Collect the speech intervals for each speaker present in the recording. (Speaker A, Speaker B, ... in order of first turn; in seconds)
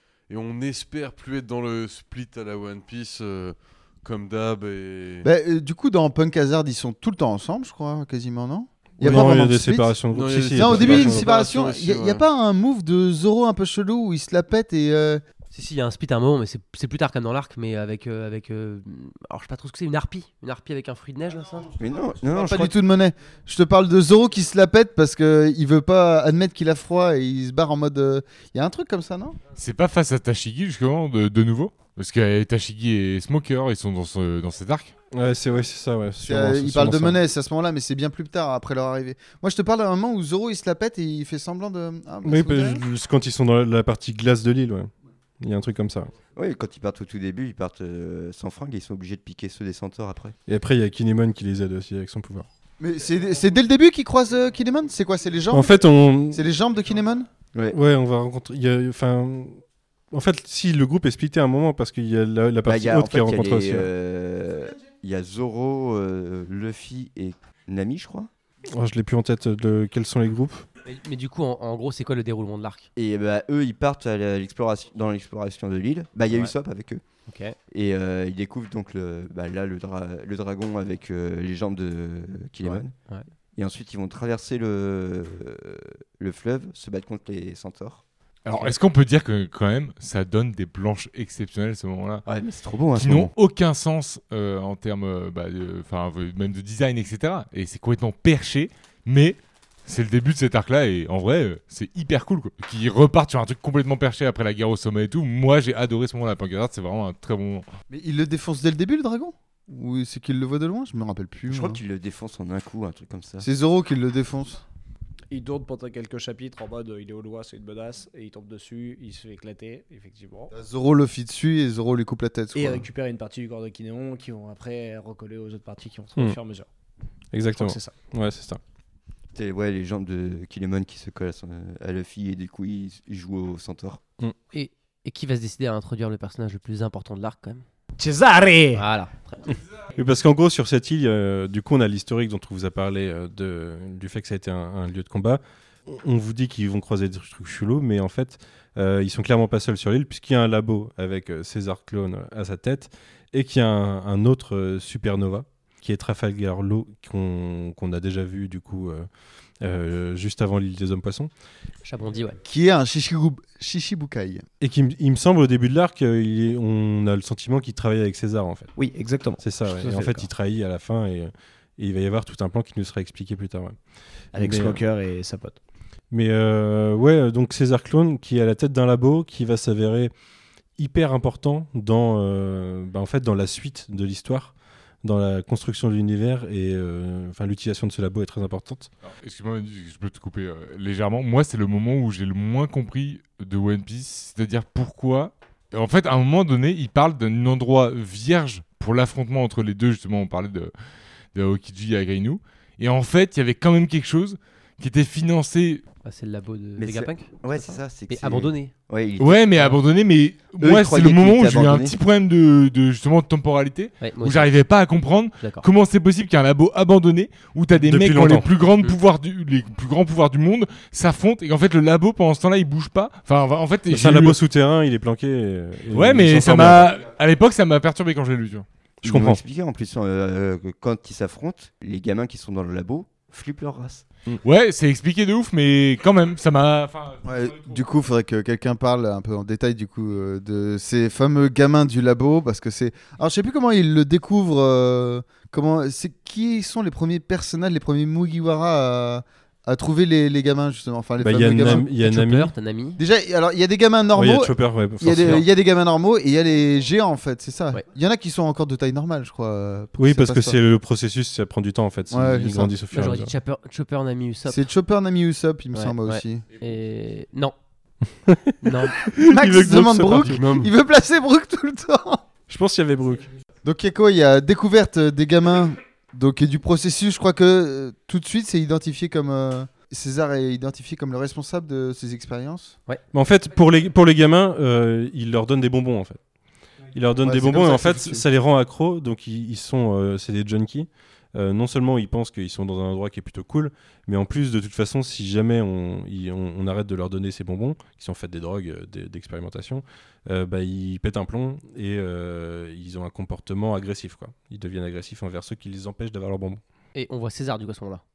Speaker A: 0.3-5.3, 9.0-9.4, 10.1-12.2, 270.1-270.7
Speaker B: 5.2-15.2, 22.3-29.4, 36.2-42.8, 52.8-57.3, 107.9-111.8, 113.4-114.6, 120.5-122.8, 162.4-164.4, 237.2-251.9, 253.0-260.6, 262.1-262.8, 264.5-266.4, 269.1-272.2, 273.6-282.8, 287.2-288.2
Speaker C: 9.0-11.3, 35.1-37.2, 42.2-46.1, 50.5-52.5, 55.5-56.4, 57.7-63.9, 68.7-70.7, 127.3-128.6, 139.9-159.1, 159.6-161.3, 164.6-168.7, 169.4-173.8, 174.4-174.8, 176.1-180.1, 180.8-188.9, 217.8-218.5, 223.9-226.9, 229.0-229.4, 251.2-252.5, 254.1-255.5, 260.0-263.3, 268.3-270.6, 272.5-273.3, 283.1-286.2, 286.9-306.6
Speaker D: 15.5-21.8, 70.8-72.9, 77.3-77.6, 82.6-83.3, 134.5-137.7, 138.8-139.5, 161.8-162.4, 206.0-208.8, 214.0-214.5, 215.4-215.7, 251.7-253.0, 262.9-264.6, 265.7-267.6, 268.6-269.1, 306.9-308.0
Speaker E: 21.8-22.7, 46.4-50.4, 62.6-68.3, 73.0-77.0, 77.7-83.0, 83.6-88.0, 92.3-93.3, 111.5-113.5, 129.3-134.0, 206.8-209.7, 210.6-212.0, 229.0-234.1
Speaker F: 29.6-35.0, 88.5-92.2, 92.9-107.7, 189.1-200.7, 201.3-205.8, 209.2-224.4, 225.9-228.7, 234.4-237.3
Speaker G: 115.3-120.5, 122.5-126.7, 127.5-128.0, 138.0-138.8, 168.8-170.3, 174.3-175.6